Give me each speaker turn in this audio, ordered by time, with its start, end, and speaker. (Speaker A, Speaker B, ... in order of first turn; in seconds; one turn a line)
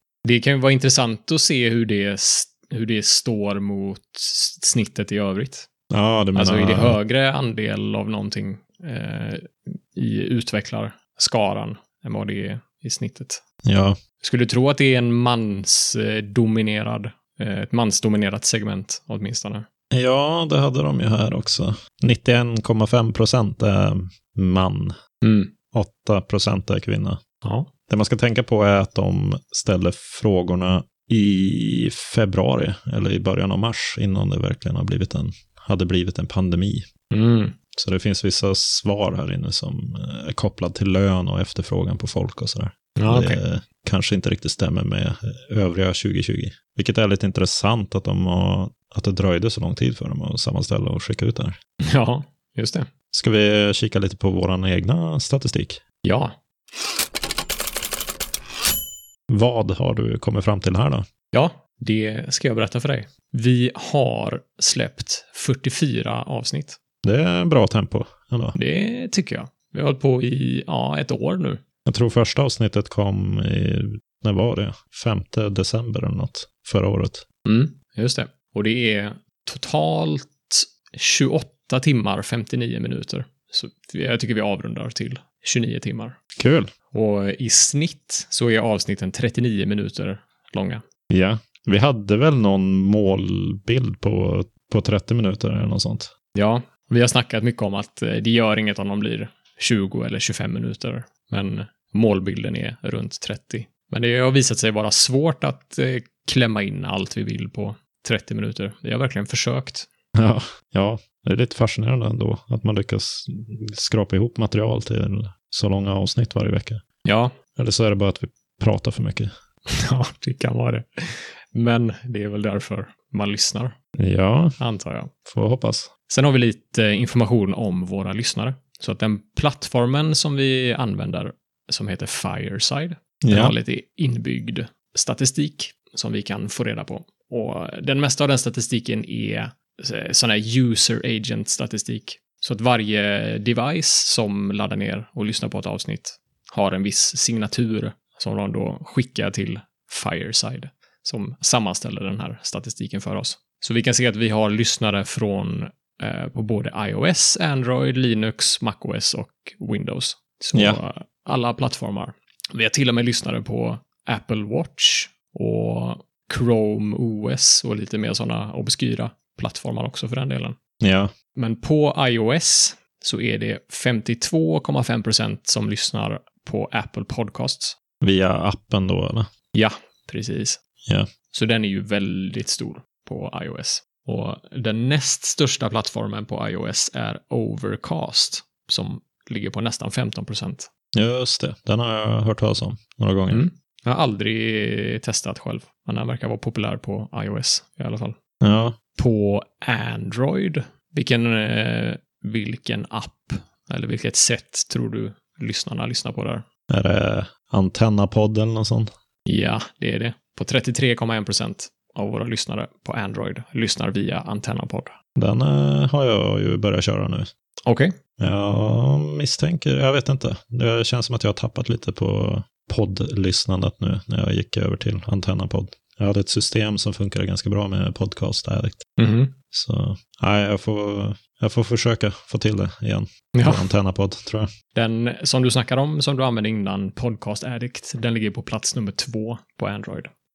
Speaker A: 0.2-5.7
Speaker B: 5.9-7.0
Speaker A: 6.3-13.4
Speaker B: 13.6-14.0
Speaker A: 14.2-19.7
Speaker B: 19.9-24.9
Speaker A: 25.2-25.5
Speaker B: 25.7-27.2
Speaker A: 27.4-27.7
Speaker B: 27.9-36.9
Speaker A: 37.1-37.6
Speaker B: 37.8-51.6
Speaker A: 43.0-43.4
Speaker A: 51.9-52.9
Speaker B: 53.1-55.8
Speaker A: 56.0-56.4
Speaker B: 59.3-61.1
Speaker A: 61.3-66.8
Speaker B: 67.0-68.6
Speaker A: 68.5-71.6
Speaker B: 71.9-77.2
Speaker A: 77.5-86.2
Speaker B: 86.4-86.7
Speaker A: 86.9-90.8
Speaker B: 91.1-96.1
Speaker A: 96.3-109.9
Speaker B: 110.2-116.8
Speaker A: 117.0-117.3
Speaker B: 117.6-119.3
Speaker A: 119.7-123.8
Speaker B: 124.0-124.6
Speaker A: 124.6-125.1
Speaker B: 125.3-125.9
Speaker A: 126.1-170.6
Speaker B: 133.2-133.6
Speaker B: 160.5-160.8
Speaker B: 170.8-171.1
Speaker A: 171.3-177.8
Speaker B: 178.0-179.3
Speaker A: 179.5-180.6
Speaker A: 181.3-190.7
Speaker B: 190.9-193.4
Speaker A: 193.3-198.2
Speaker B: 198.4-198.8
Speaker A: 199.0-206.5
Speaker B: 206.7-208.9
Speaker A: 209.3-214.9
Speaker B: 215.2-217.3
Speaker A: 217.7-217.9
Speaker B: 218.2-228.8
Speaker A: 229.0-229.3
Speaker B: 229.5-234.5
Speaker A: 233.3-233.7
Speaker A: 234.7-240.1